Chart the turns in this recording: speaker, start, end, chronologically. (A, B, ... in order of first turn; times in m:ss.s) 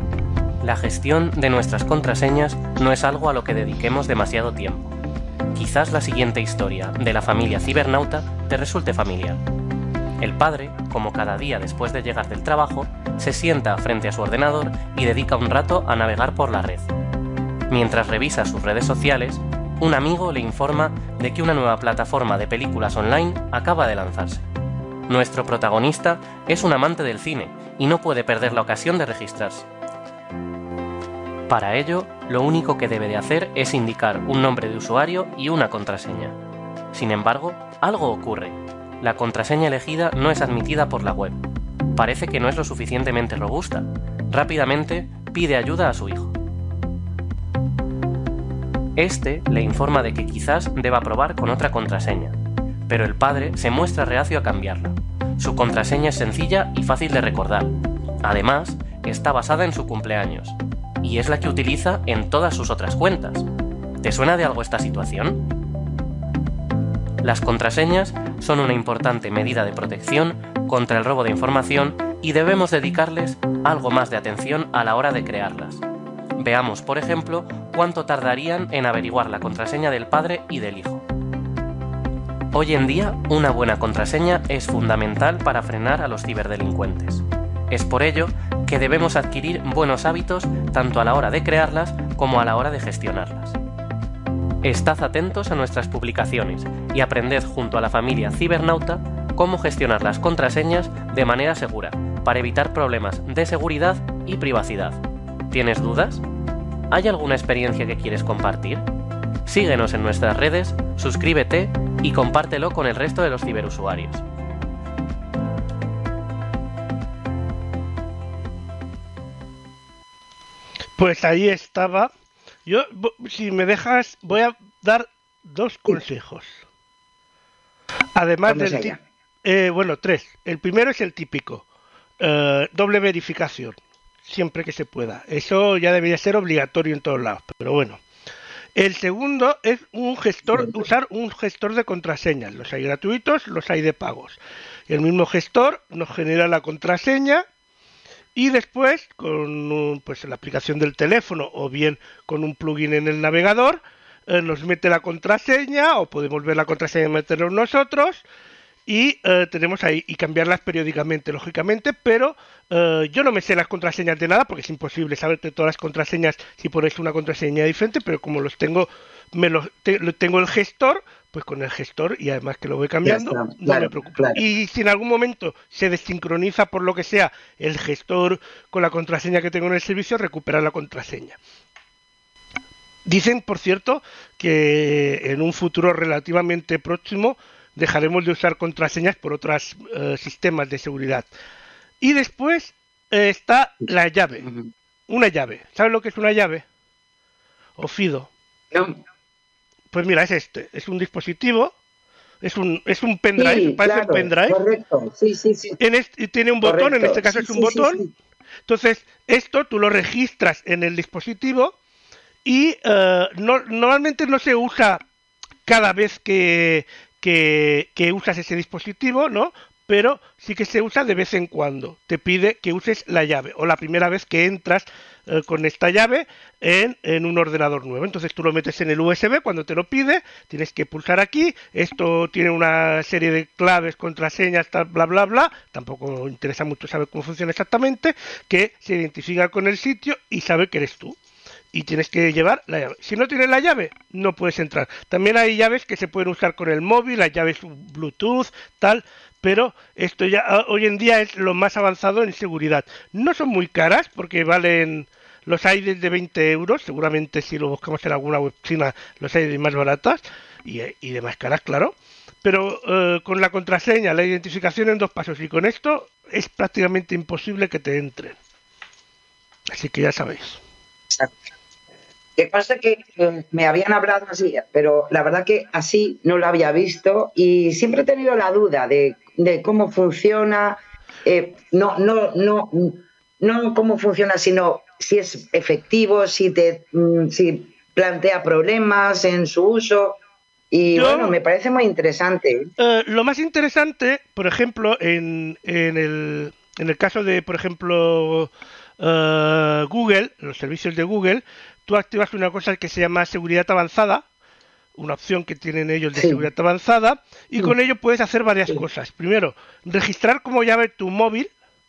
0:00.6-0:04.9 A
0:05.5-0:09.4 A
0:10.2-0:16.9 A
0:17.7-0:24.4 A
0:25.1-0:29.6 A
0:31.5-0:36.4 A
0:36.9-0:41.4 A
0:41.9-0:46.3 A
0:49.0-0:52.4 A
0:52.9-1:03.5 A
1:04.0-1:05.4 A
1:07.2-1:15.8 A
1:16.4-1:21.0 A
1:22.5-1:33.6 A
1:34.6-1:45.0 A
1:45.5-1:46.2 A
1:46.9-1:48.8 A
1:49.4-1:54.2 A
2:01.0-2:02.1 B
2:02.6-2:06.6 B
2:08.2-2:11.6 B
2:08.5-2:09.0 C
2:12.2-2:18.0 B
2:18.8-2:27.4 B
2:20.5-2:20.8 C
2:28.3-2:38.2 B
2:38.9-3:01.4 B
2:53.0-2:54.4 C
3:03.0-3:11.3 B
3:12.0-3:14.5 B
3:14.4-3:14.7 C
3:15.1-3:16.6 B
3:17.8-3:18.3 B
3:18.7-3:19.0 C
3:19.9-3:21.7 B
3:22.4-3:24.6 B
3:23.4-3:25.8 C
3:25.8-3:28.0 B
3:26.6-3:28.1 C
3:28.7-3:31.7 B
3:32.4-3:35.0 B
3:35.6-4:01.2 B
4:01.7-4:28.4 B
4:29.7-4:30.6 B
4:32.4-4:50.2 C
4:50.7-4:52.7 C
4:50.9-4:51.4 B
4:52.8-5:04.2 B
5:05.0-5:11.5 B
5:06.2-5:06.5 C